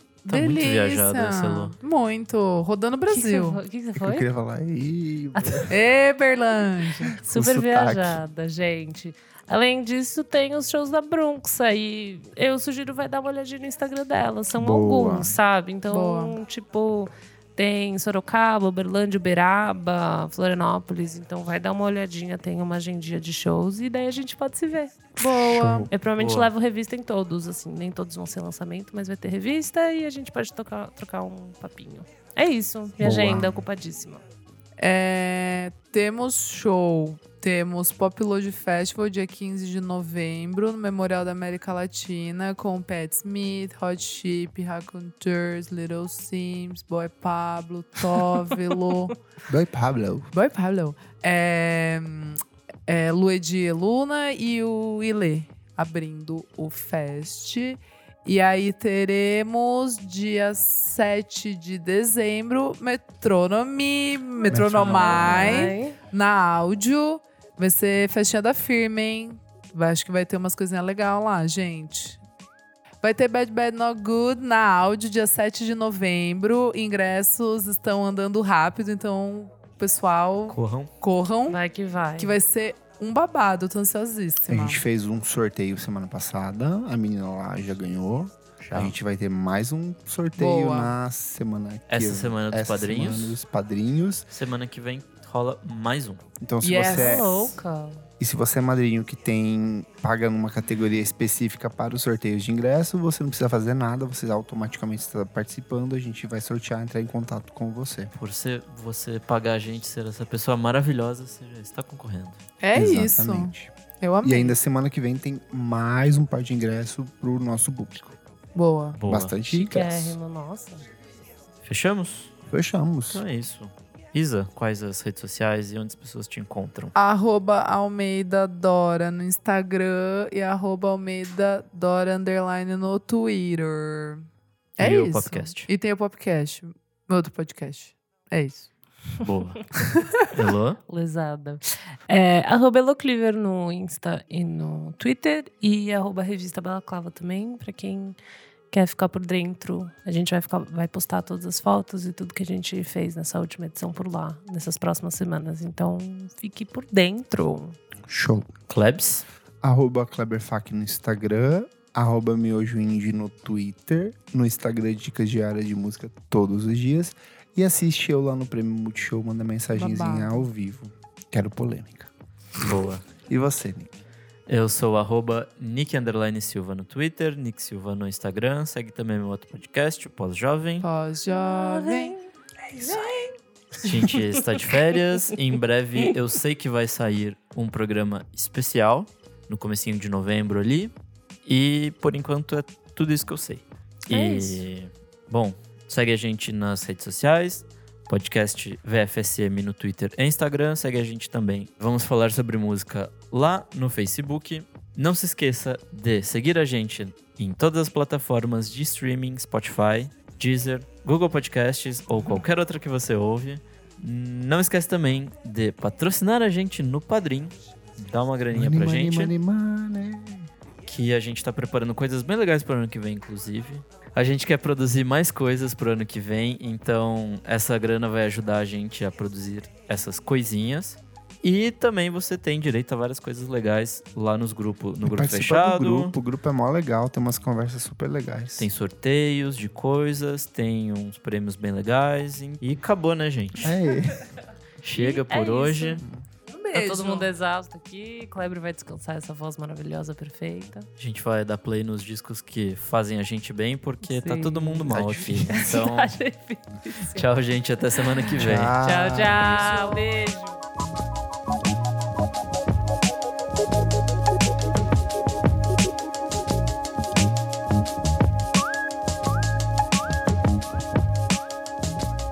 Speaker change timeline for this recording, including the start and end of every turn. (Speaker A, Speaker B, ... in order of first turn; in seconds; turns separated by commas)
Speaker A: 0.2-3.6, Speaker B: 0.3-1.7, Speaker C: 3.1-4.3, Speaker D: 4.0-5.7, Speaker C: 5.3-5.7, Speaker A: 5.7-7.1, Speaker D: 7.1-8.2, Speaker C: 7.2-24.9, Speaker D: 14.6-15.3, Speaker A: 15.9-16.4, Speaker A: 25.2-25.9, Speaker D: 25.3-25.9, Speaker C: 25.9-34.2, Speaker B: 26.2-26.5, Speaker D: 33.0-33.6, Speaker A: 34.8-49.1, Speaker D: 49.5-50.3, Speaker A: 50.3-72.2, Speaker D: 64.5-65.7, Speaker C: 64.8-66.0, Speaker A: 73.0-81.6, Speaker B: 80.5-80.9, Speaker C: 81.5-82.4, Speaker A: 82.2-84.8, Speaker D: 84.5-94.3, Speaker B: 88.6-88.9, Speaker A: 90.4-90.9, Speaker B: 91.9-93.4, Speaker B: 94.3-96.2, Speaker D: 96.4-97.5, Speaker A: 96.6-97.3, Speaker C: 96.8-98.0, Speaker D: 98.2-108.1, Speaker B: 108.1-112.4, Speaker A: 112.6-114.5, Speaker D: 112.7-118.2, Speaker A: 118.5-119.0, Speaker B: 118.9-119.3, Speaker D: 119.0-120.2, Speaker C: 119.5-120.8, Speaker B: 121.6-122.3, Speaker D: 122.5-123.2, Speaker B: 123.1-126.9, Speaker A: 126.9-134.2, Speaker A: 134.8-138.7, Speaker B: 134.8-135.7, Speaker B: 139.2-140.8, Speaker C: 140.9-148.2, Speaker C: 148.7-157.8, Speaker D: 158.1-158.5, Speaker B: 158.7-159.2, Speaker D: 159.6-172.1, Speaker A: 169.7-170.5, Speaker B: 172.6-173.1, Speaker D: 173.2-173.9, Speaker B: 174.5-180.9, Speaker A: 180.8-182.2, Speaker C: 181.3-183.3, Speaker B: 183.8-190.9, Speaker B: 191.4-219.3, Speaker C: 194.1-194.6, Speaker D: 218.5-220.5, Speaker B: 220.8-236.1, Speaker D: 235.0-238.7, Speaker B: 238.6-243.7, Speaker D: 243.6-244.3, Speaker B: 244.8-246.0, Speaker C: 244.9-246.0, Speaker A: 246.5-247.3, Speaker C: 246.7-250.9, Speaker B: 251.0-256.1, Speaker C: 254.0-257.2, Speaker D: 254.9-255.8, Speaker B: 257.1-259.8, Speaker D: 258.4-259.6, Speaker C: 258.8-260.6